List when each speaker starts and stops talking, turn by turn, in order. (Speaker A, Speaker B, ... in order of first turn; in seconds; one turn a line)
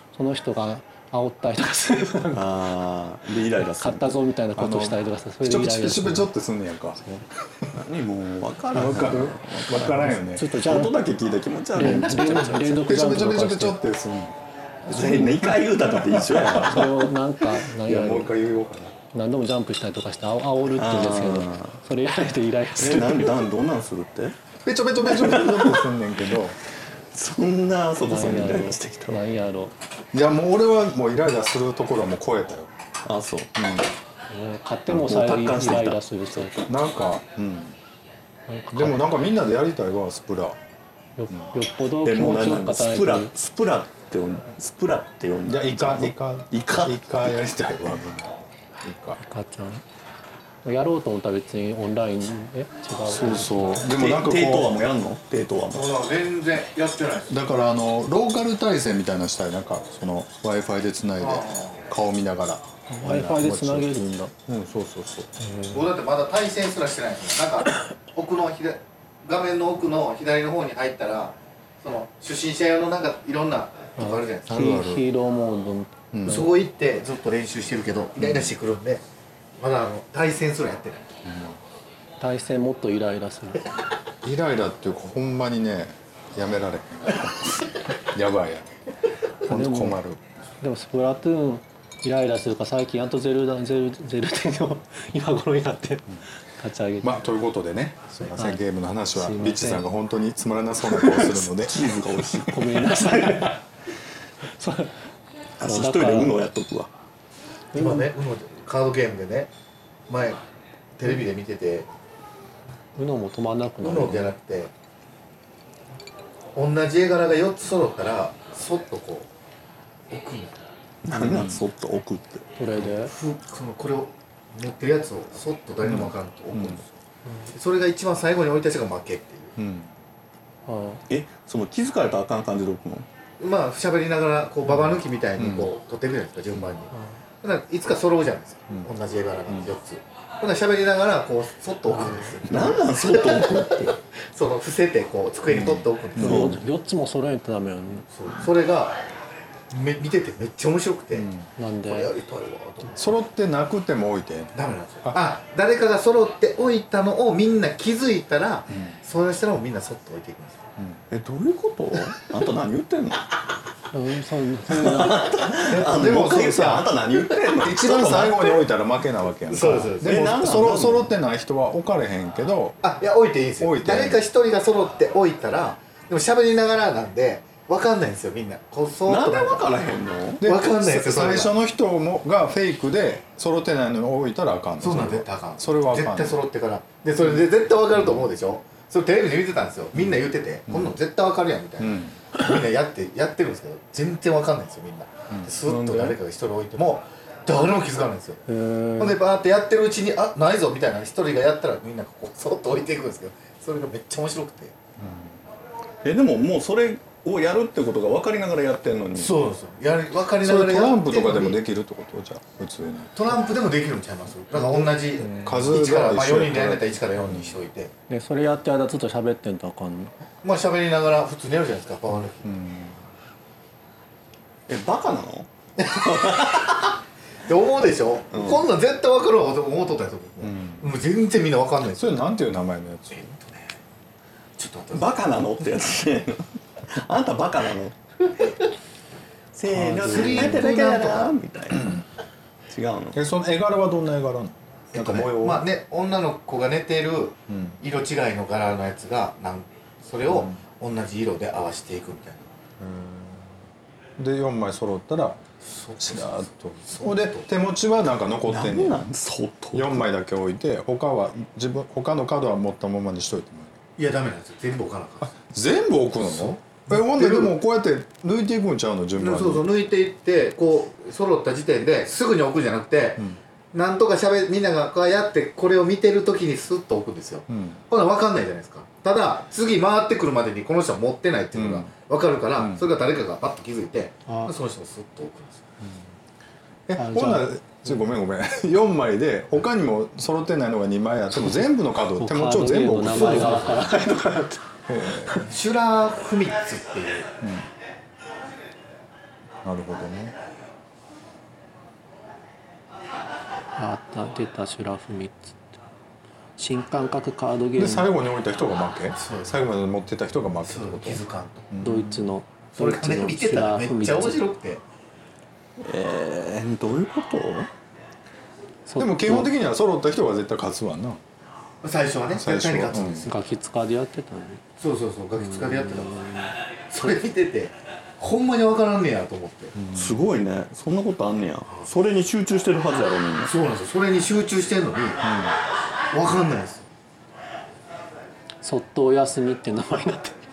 Speaker A: 0.1-2.4
Speaker B: 2.3-4.1
Speaker A: 3.6-6.3
Speaker C: 4.5-7.8
Speaker B: 7.7-12.9
Speaker C: 8.7-10.5
Speaker A: 10.3-11.0
Speaker A: 11.7-13.8
Speaker C: 11.8-14.4
Speaker B: 14.9-17.0
Speaker C: 14.9-16.8
Speaker A: 16.5-18.3
Speaker C: 17.8-18.9
Speaker A: 19.1-23.4
Speaker B: 20.8-21.8
Speaker B: 22.8-24.4
Speaker C: 24.6-26.6
Speaker B: 25.0-25.9
Speaker B: 27.1-29.2
Speaker A: 28.1-29.7
Speaker C: 30.1-32.7
Speaker B: 33.0-33.6
Speaker C: 33.6-33.9
Speaker A: 34.3-36.6
Speaker B: 34.9-36.6
Speaker C: 36.7-37.8
Speaker A: 38.5-39.1
Speaker C: 38.7-40.6
Speaker A: 41.2-43.3
Speaker B: 42.0-47.0
Speaker C: 45.5-49.2
Speaker A: 49.2-49.8
Speaker A: 50.6-53.8
Speaker C: 53.0-54.7
Speaker B: 53.9-56.0
Speaker D: 55.7-57.4
Speaker C: 57.3-65.3
Speaker D: 61.2-61.8
Speaker A: 62.9-64.3
Speaker A: 65.4-65.8
Speaker D: 65.7-74.6
Speaker A: 74.0-76.5
Speaker C: 74.5-75.0
Speaker C: 76.1-76.5
Speaker D: 76.2-79.0
Speaker C: 78.2-78.5
Speaker D: 79.6-81.2
Speaker C: 81.2-81.6
Speaker A: 82.2-83.6
Speaker C: 84.2-88.7
Speaker C: 89.4-90.2
Speaker A: 89.5-90.0
Speaker A: 90.6-97.2
Speaker C: 97.0-101.9
Speaker A: 98.3-99.8
Speaker B: 101.0-103.5
Speaker A: 102.5-103.6
Speaker A: 104.4-105.0
Speaker B: 105.6-106.9
Speaker A: 105.6-106.3
Speaker A: 107.7-108.1
Speaker D: 107.7-109.5
Speaker D: 110.1-110.4
Speaker D: 111.0-111.9
Speaker A: 113.0-114.3
Speaker D: 113.8-114.7
Speaker D: 116.5-119.3
Speaker D: 120.1-120.6
Speaker B: 121.0-122.5
Speaker C: 121.1-121.6
Speaker A: 122.6-123.1
Speaker D: 122.8-126.9
Speaker C: 125.8-126.8
Speaker A: 127.2-127.5
Speaker D: 127.5-129.6
Speaker C: 129.6-129.9
Speaker A: 130.7-131.0
Speaker B: 131.1-133.1
Speaker D: 133.4-146.6
Speaker C: 135.4-135.7
Speaker B: 142.4-144.0
Speaker C: 145.5-146.4
Speaker B: 146.2-146.6
Speaker A: 146.2-148.1
Speaker D: 148.1-149.0
Speaker D: 149.7-151.3
Speaker C: 151.1-151.5
Speaker A: 151.6-152.1
Speaker D: 151.8-153.1
Speaker C: 152.9-155.2
Speaker D: 154.5-160.6
Speaker C: 158.7-158.9
Speaker B: 161.1-163.3
Speaker A: 163.9-165.4
Speaker B: 164.7-168.6
Speaker D: 165.6-167.3
Speaker C: 165.8-166.8
Speaker C: 167.6-172.8
Speaker D: 169.5-170.2
Speaker B: 170.0-171.1
Speaker D: 172.8-179.7
Speaker C: 173.6-174.2
Speaker B: 179.1-180.5
Speaker C: 180.4-186.4
Speaker D: 180.4-181.5
Speaker D: 184.8-198.4
Speaker C: 190.7-190.9
Speaker C: 191.8-192.2
Speaker C: 195.3-195.6
Speaker B: 195.6-196.2
Speaker A: 198.5-199.2
Speaker D: 199.0-204.7
Speaker C: 205.0-205.4
Speaker B: 206.0-209.3
Speaker D: 209.2-211.6
Speaker C: 210.4-213.2
Speaker D: 213.1-217.9
Speaker C: 215.2-217.6
Speaker A: 218.1-220.1
Speaker D: 220.4-222.5
Speaker C: 222.4-223.0
Speaker B: 224.7-226.9
Speaker D: 225.8-226.7
Speaker D: 227.4-232.2
Speaker B: 228.3-228.6
Speaker C: 230.4-230.9
Speaker C: 231.9-233.3
Speaker D: 233.2-233.7
Speaker D: 234.6-235.2
Speaker B: 234.9-237.9
Speaker B: 239.5-242.0
Speaker C: 239.7-240.6
Speaker D: 239.8-241.3
Speaker C: 241.7-242.0
Speaker B: 242.7-243.2
Speaker C: 243.1-245.6
Speaker D: 244.9-252.5
Speaker C: 247.5-247.8
Speaker C: 250.3-250.6
Speaker C: 252.8-253.4
Speaker C: 254.2-255.4
Speaker D: 255.6-257.5
Speaker C: 256.0-259.0
Speaker B: 258.5-260.1
Speaker C: 259.7-263.7
Speaker D: 264.0-265.4
Speaker C: 265.3-269.7
Speaker D: 266.2-267.5
Speaker D: 269.2-285.7
Speaker C: 277.5-277.8
Speaker C: 281.5-281.9
Speaker C: 282.6-282.8
Speaker A: 284.3-284.5
Speaker C: 286.9-293.9
Speaker A: 286.9-287.9
Speaker A: 292.1-295.4
Speaker D: 293.1-293.7
Speaker C: 294.9-295.5
Speaker D: 295.4-297.3
Speaker C: 297.4-297.7
Speaker C: 299.6-300.3
Speaker A: 303.8-305.8
Speaker A: 306.6-308.1
Speaker C: 307.8-312.2
Speaker D: 309.2-309.6
Speaker D: 310.6-311.7
Speaker A: 311.8-314.4
Speaker D: 312.8-314.8
Speaker B: 315.8-317.7
Speaker A: 318.9-319.5
Speaker C: 318.9-321.2
Speaker D: 321.8-323.4
Speaker C: 322.3-323.3
Speaker A: 323.2-324.6
Speaker D: 324.8-326.3
Speaker A: 325.5-326.5
Speaker D: 326.9-329.7
Speaker C: 329.7-330.2
Speaker B: 329.9-333.6
Speaker D: 333.4-335.3
Speaker C: 335.2-335.6
Speaker D: 336.1-336.9
Speaker A: 338.6-340.4